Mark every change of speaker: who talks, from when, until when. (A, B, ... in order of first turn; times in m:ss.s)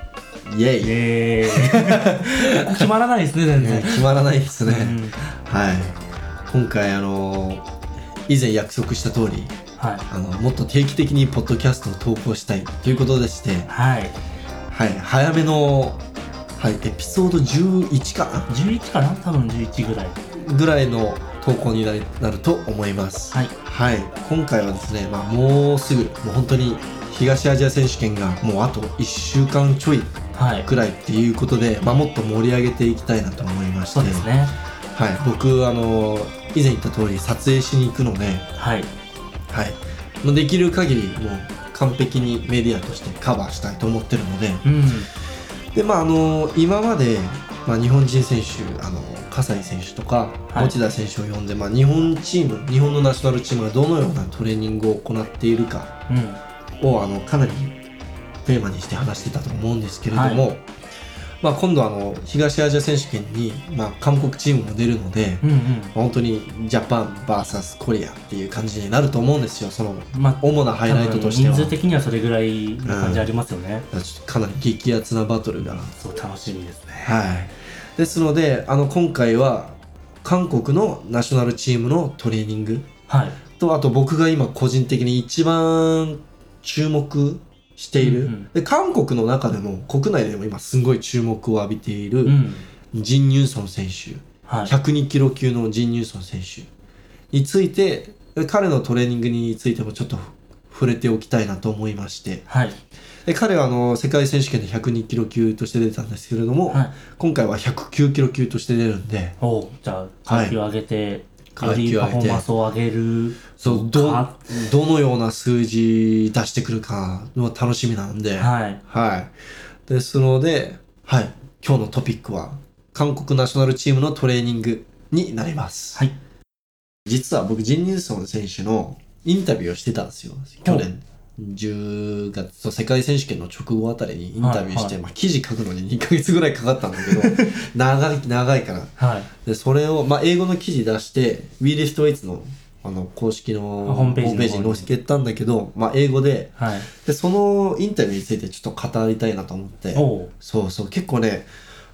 0:00.5-0:00.9 A
0:00.8-0:04.1 B
0:01.4-0:02.9 A
0:03.6-0:06.0 A
0:04.6-0:05.3 B
0:06.5-0:07.6 A
0:08.3-0:09.5 A
0:09.8-0:10.0 B
0:10.1-0:13.7 A
0:13.7-0:14.1 B
0:14.7-0:16.0 A
0:16.6-0:18.5 A
0:18.5-0:20.2 B
0:20.3-0:30.1 A
0:30.3-0:30.7 B
0:30.6-0:34.3 A
0:33.9-0:34.6 B
0:34.9-0:38.4 A
0:38.6-0:38.9 B
0:39.5-0:44.7 A
0:44.6-0:45.1 B
0:45.7-0:55.9 A
0:50.5-0:50.8 B
0:56.1-0:56.4 B
0:56.8-0:57.8 A
0:58.4-1:00.6 A
1:00.1-1:00.5 B
1:01.4-1:11.8 A
1:05.4-1:05.9 B
1:10.1-1:13.9 B
1:12.8-1:13.3 A
1:13.9-1:15.9 A
1:15.6-1:17.2 B
1:17.0-1:22.9 A
1:23.1-1:23.4 B
1:23.6-1:36.7 A
1:28.0-1:28.5 B
1:32.2-1:32.7 B
1:34.4-1:34.7 B
1:37.3-1:42.4 A
1:42.5-1:42.8 B
1:43.2-1:49.4 A
1:49.4-1:54.5 B
1:50.3-1:50.6 A
1:51.5-1:52.4 A
1:53.6-1:59.3 A
1:58.4-1:58.8 B
1:59.9-2:06.0 A
2:07.1-2:31.5 A
2:14.4-2:15.0 B
2:17.0-2:17.4 B
2:19.0-2:19.3 B
2:23.8-2:24.9 B
2:26.6-2:26.9 B
2:29.9-2:30.3 B